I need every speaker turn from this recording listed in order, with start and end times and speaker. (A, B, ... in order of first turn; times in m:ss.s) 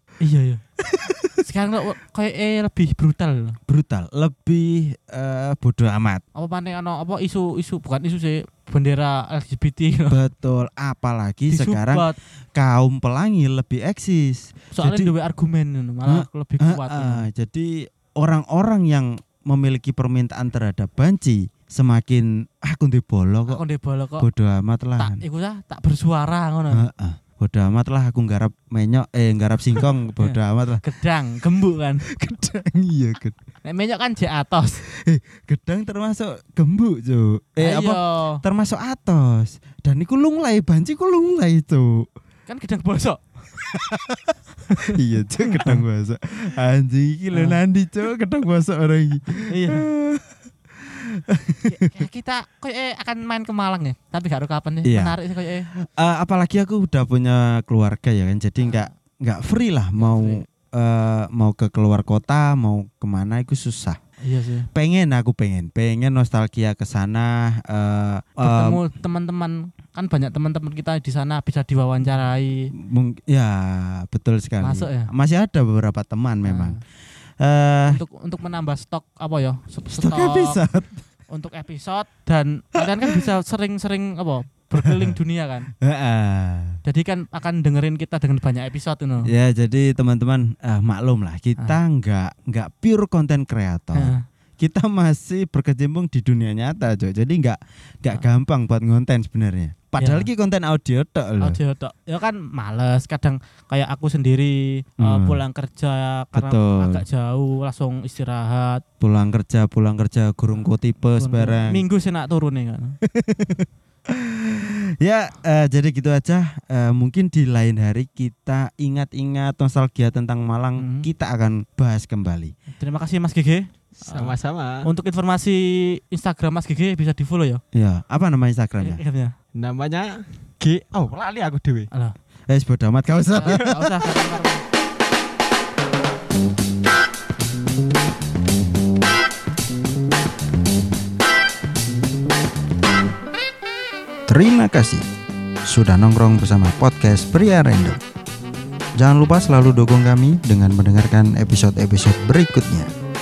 0:00.2-0:00.6 A
0:00.8-0:01.4 B
0:01.4-0:03.6 A
0:03.7-0:06.2 B
0:06.3-0:10.2 A
0:10.1-0:15.1 B
0:11.5-0:12.2 A
0:14.7-0:17.3 A
0:16.0-0:23.6 B
0:23.5-0:24.3 A
0:24.2-0:25.2 B
0:25.0-0:26.9 A
0:26.7-0:30.8 B
0:30.2-0:32.0 A
0:32.0-0:33.4 B
0:33.6-0:34.8 A
0:34.8-0:42.1 B
0:37.6-0:38.4 A
0:42.5-0:43.2 A
0:43.6-0:52.1 B
0:45.4-0:45.8 A
0:47.3-0:47.6 A
0:49.5-0:49.9 A
0:51.7-0:55.7 A
0:54.8-0:55.2 B
0:55.7-1:04.0 B
0:58.6-0:58.9 A
1:00.0-1:00.4 A
1:04.2-1:04.7 A
1:04.7-1:08.8 B
1:08.4-1:12.7 A
1:12.7-1:16.8 B
1:14.6-1:15.1 A
1:16.4-1:16.8 A
1:17.4-1:18.0 B
1:17.9-1:20.6 A
1:19.9-1:21.0 B
1:21.3-1:25.7 A
1:22.8-1:23.3 B
1:24.8-1:25.2 B
1:25.8-1:26.8 B
1:26.8-1:29.3 A
1:29.2-1:41.6 B
1:33.9-1:34.2 A
1:40.0-1:40.3 A
1:41.4-1:48.8 A
1:45.0-1:45.4 B
1:46.3-1:47.0 B
1:49.0-1:51.8 B
1:51.1-1:53.0 A
1:53.0-2:02.5 B
2:00.8-2:01.1 A
2:02.7-2:07.6 A
2:04.0-2:04.8 C
2:07.7-2:09.0 B
2:08.8-2:09.3 A
2:09.5-2:11.9 C
2:12.5-2:14.2 B
2:13.3-2:14.6 A
2:24.3-2:25.0 B
2:25.6-2:28.0 B
2:29.0-2:32.9 B